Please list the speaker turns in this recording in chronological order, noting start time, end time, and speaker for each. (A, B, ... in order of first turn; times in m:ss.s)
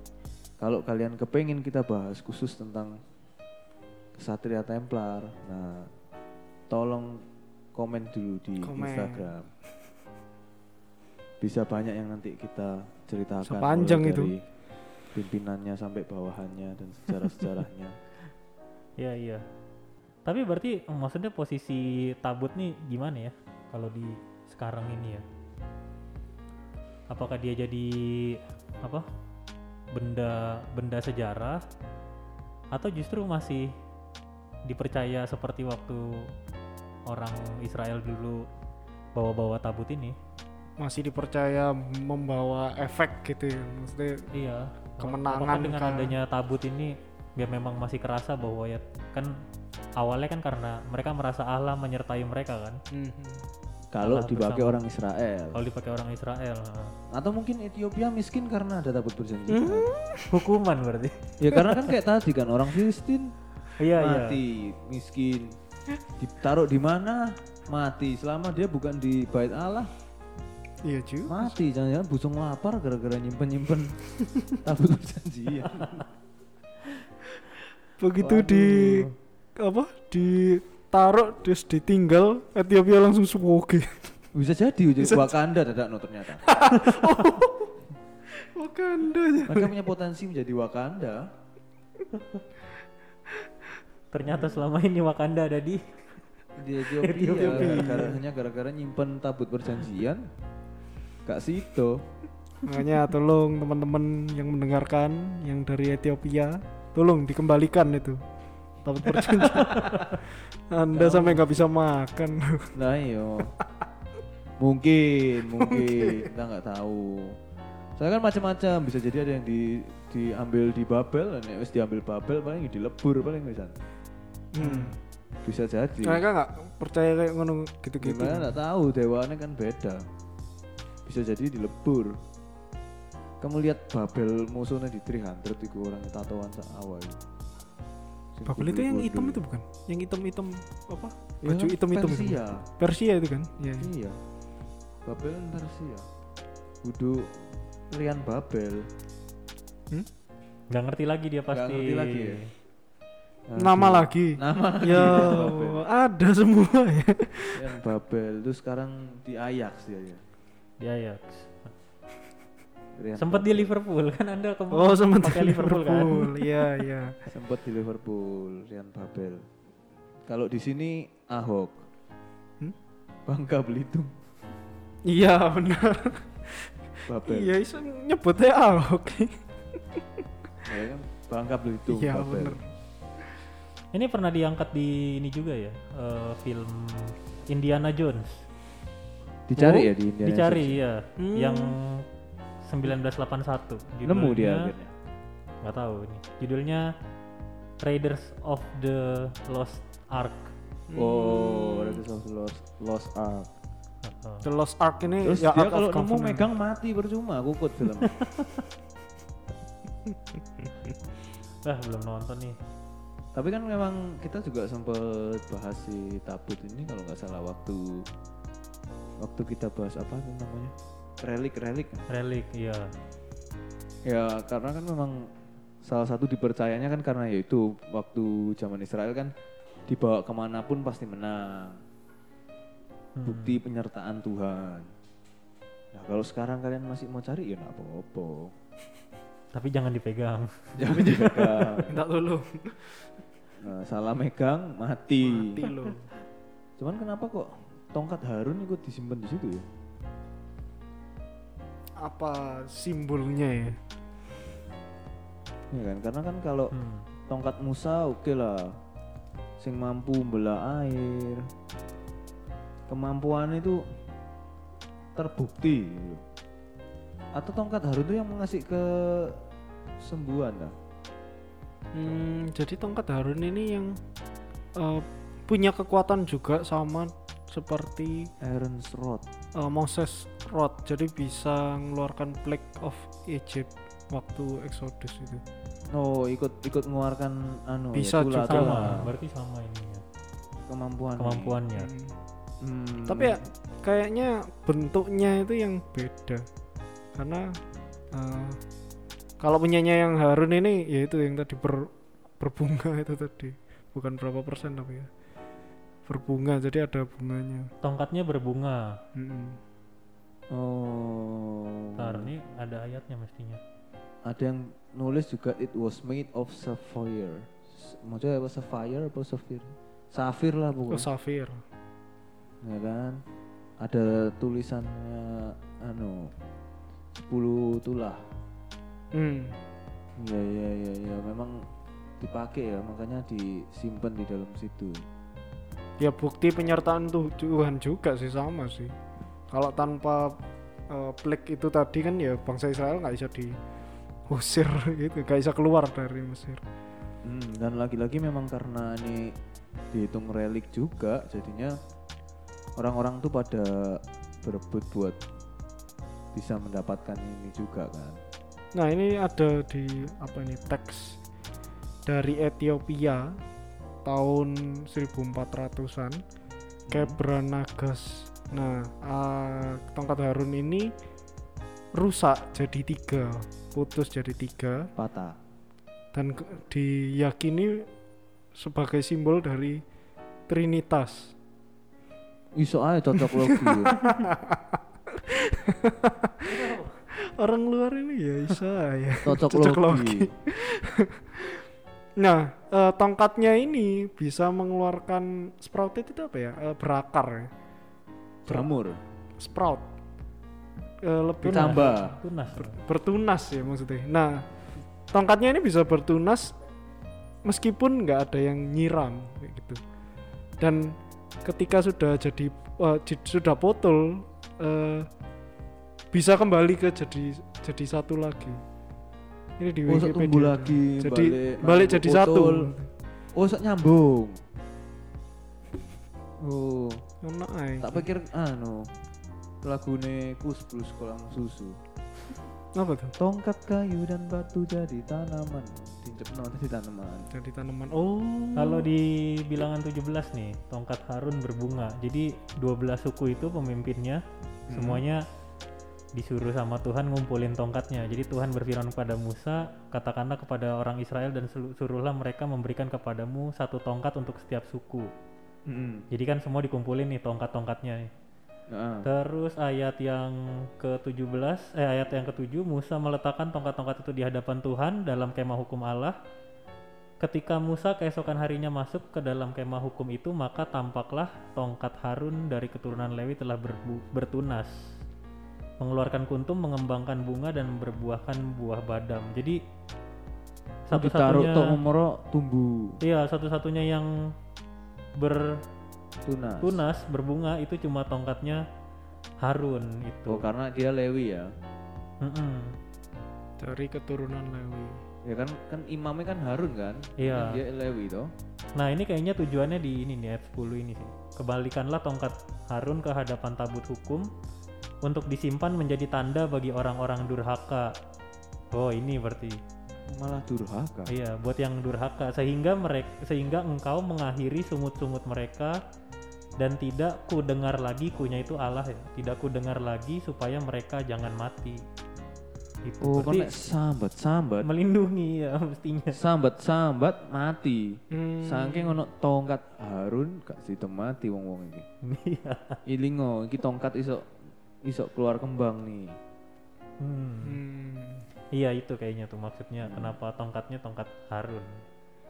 0:00.6-0:03.0 A
0:04.2-0:05.9 A
0:06.7-0:07.2 A
0:07.8-0:09.5 A
0:08.6-0:09.3 B
0:11.4-0:14.4 A
0:13.4-0:14.3 B
0:15.1-0:18.0 A
0:19.0-0:19.4 C
0:20.2-0:25.2 C
0:27.1-0:29.0 C
0:30.0-0:31.6 C
0:32.7-0:33.7 C
0:34.7-0:36.0 C
0:37.1-0:38.5 C
0:39.2-0:40.2 C
0:40.8-0:44.3 B
0:44.3-0:49.4 C
0:45.0-0:46.1 B
0:50.0-0:52.8 C
0:52.9-0:53.5 B
0:53.9-0:55.6 A
0:54.0-0:54.8 C
0:55.5-0:57.0 C
0:57.1-0:59.9 A
0:59.5-1:00.4 B
1:00.3-1:01.4 C
1:01.4-1:03.3 A
1:03.8-1:04.4 C
1:04.0-1:05.5 A
1:06.2-1:09.9 A
1:10.8-1:11.6 B
1:11.3-1:16.1 A
1:18.0-1:19.1 B
1:18.2-1:19.2 A
1:19.6-1:24.2 B
1:24.3-1:26.9 A
1:25.0-1:25.4 B
1:26.4-1:27.7 B
1:28.3-1:29.7 B
1:29.5-1:31.3 A
1:32.2-1:32.4 C
1:34.1-1:35.8 C
1:34.2-1:34.6 A
1:36.6-1:40.3 A
1:37.0-1:38.0 C
1:37.3-1:38.2 B
1:41.2-1:42.0 A
1:42.6-1:48.2 B
1:48.8-1:52.7 B
1:49.8-1:50.0 C
1:50.9-1:51.4 A
1:52.8-1:53.5 A
1:54.6-1:57.4 A
1:55.6-1:56.3 B
1:58.0-2:03.7 A
2:04.6-2:05.0 B
2:04.6-2:06.2 A
2:06.0-2:08.6 B
2:08.0-2:10.1 A
2:11.0-2:12.2 A
2:13.4-2:17.2 A
2:18.4-2:19.4 A
2:18.5-2:23.9 B
2:21.4-2:22.6 A
2:23.8-2:24.2 A
2:25.1-2:26.0 A
2:26.8-2:28.9 A
2:30.7-2:32.4 C
2:31.5-2:32.4 A
2:33.5-2:35.8 A
2:33.6-2:37.6 B
2:37.6-2:40.2 A
2:40.8-2:41.7 C
2:43.0-2:43.7 A
2:43.2-2:46.7 C
2:44.7-2:47.2 B
2:47.3-2:49.4 A
2:50.3-2:51.8 A
2:53.3-2:54.1 A
2:55.1-2:59.4 B
2:57.1-2:57.5 A
3:00.7-3:02.6 A
3:01.9-3:02.7 B
3:03.9-3:08.4 C
3:09.5-3:10.8 A
3:09.6-3:12.0 C
3:11.2-3:11.7 B
3:12.6-3:14.7 C
3:14.0-3:14.9 A
3:15.6-3:16.9 C
3:17.8-3:20.5 C
3:20.9-3:22.0 B
3:21.0-3:23.5 A
3:24.0-3:24.4 C
3:24.4-3:26.5 B
3:25.2-3:28.2 A
3:31.6-3:32.6 C
3:33.3-3:38.0 A
3:39.2-3:42.1 A
3:42.1-3:42.9 C
3:44.1-3:45.3 A
3:45.8-3:49.3 A
3:49.9-3:51.8 A
3:53.2-3:53.6 C
3:53.2-3:54.9 A
3:55.9-3:58.5 A
3:59.5-4:01.2 C
4:00.8-4:02.0 A
4:01.8-4:03.1 B
4:03.6-4:05.7 A
4:05.2-4:06.1 B
4:06.8-4:09.6 A
4:12.0-4:13.8 B
4:15.7-4:16.7 A
4:16.7-4:17.1 C
4:17.3-4:18.8 A
4:19.6-4:21.4 A
4:22.9-4:23.8 A
4:25.2-4:26.2 A
4:27.3-4:29.4 A
4:30.0-4:30.8 A
4:31.9-4:34.0 B
4:34.8-4:38.3 B
4:38.4-4:39.2 A
4:39.6-4:45.4 B
4:45.9-4:49.1 A
4:47.9-4:49.1 B
4:48.5-4:50.0 C
4:50.7-4:51.6 A
4:51.2-4:51.9 C
4:51.8-4:52.2 B
4:52.6-4:53.4 A
4:53.0-4:56.5 B
4:57.2-4:57.6 B
4:58.1-4:58.6 B
4:59.4-5:05.1 B
5:06.1-5:07.7 B
5:07.8-5:09.0 C
5:09.2-5:09.6 B
5:10.5-5:12.3 A
5:12.0-5:13.6 C
5:14.2-5:21.1 A
5:20.9-5:21.6 B
5:22.6-5:23.2 A
5:23.8-5:26.3 A
5:27.2-5:28.2 A
5:29.2-5:29.6 B
5:30.2-5:31.7 A
5:32.2-5:35.0 A
5:36.0-5:38.9 B
5:39.5-5:43.6 B
5:44.3-5:46.6 B
5:47.2-5:49.4 A
5:49.9-5:51.8 A
5:52.8-5:55.2 A
5:56.3-5:58.2 A
5:58.8-6:01.2 B
6:02.1-6:03.4 B
6:04.0-6:06.2 B
6:06.9-6:07.2 A
6:06.9-6:10.9 B
6:12.0-6:14.9 B
6:15.0-6:15.4 A
6:16.1-6:17.9 B
6:18.5-6:19.8 B
6:20.5-6:21.4 B
6:22.6-6:24.1 A
6:23.2-6:26.5 B
6:26.5-6:26.9 C
6:27.2-6:31.6 B
6:29.2-6:30.3 A
6:32.2-6:37.5 B
6:38.5-6:39.0 A
6:39.4-6:39.9 B
6:41.0-6:42.0 B
6:41.4-6:42.2 A
6:41.5-6:42.8 C
6:42.6-6:44.5 B
6:45.1-6:46.6 B
6:47.4-6:49.8 B
6:50.6-6:55.1 B
6:56.1-6:58.6 B
6:59.6-7:02.9 B
6:59.9-7:02.7 A
7:03.4-7:04.4 A
7:06.4-7:07.0 A
7:07.2-7:08.1 B
7:07.8-7:08.9 A
7:09.6-7:11.8 A
7:12.8-7:13.2 B
7:13.2-7:17.3 A
7:17.3-7:18.9 B
7:18.6-7:25.2 C
7:24.7-7:25.0 A
7:26.2-7:35.1 C
7:35.7-7:36.1 A
7:36.1-7:38.1 C
7:38.7-7:39.1 A
7:39.0-7:46.2 C
7:47.2-7:54.7 C
7:55.8-7:59.6 C
8:00.9-8:03.0 A
8:00.9-8:01.8 C
8:03.0-8:04.1 C
8:05.2-8:05.6 C
8:06.3-8:06.8 A
8:06.6-8:08.6 C
8:09.4-8:10.5 C
8:10.3-8:11.5 A
8:12.2-8:12.8 C
8:13.6-8:15.0 B
8:15.2-8:18.3 A
8:17.2-8:17.6 C
8:18.8-8:24.3 C
8:25.0-8:27.9 C
8:28.7-8:29.6 C
8:30.1-8:31.1 A
8:31.1-8:35.8 C
8:36.6-8:41.8 C
8:42.9-8:43.5 C
8:43.0-8:44.7 A
8:44.6-8:46.2 C
8:46.1-8:51.9 A
8:48.1-8:49.0 B
8:52.0-8:52.8 C
8:52.9-8:54.3 A
8:54.8-8:56.2 A
8:57.0-8:57.6 C
8:57.4-8:58.2 B
8:58.5-9:01.8 C
8:59.8-9:00.2 A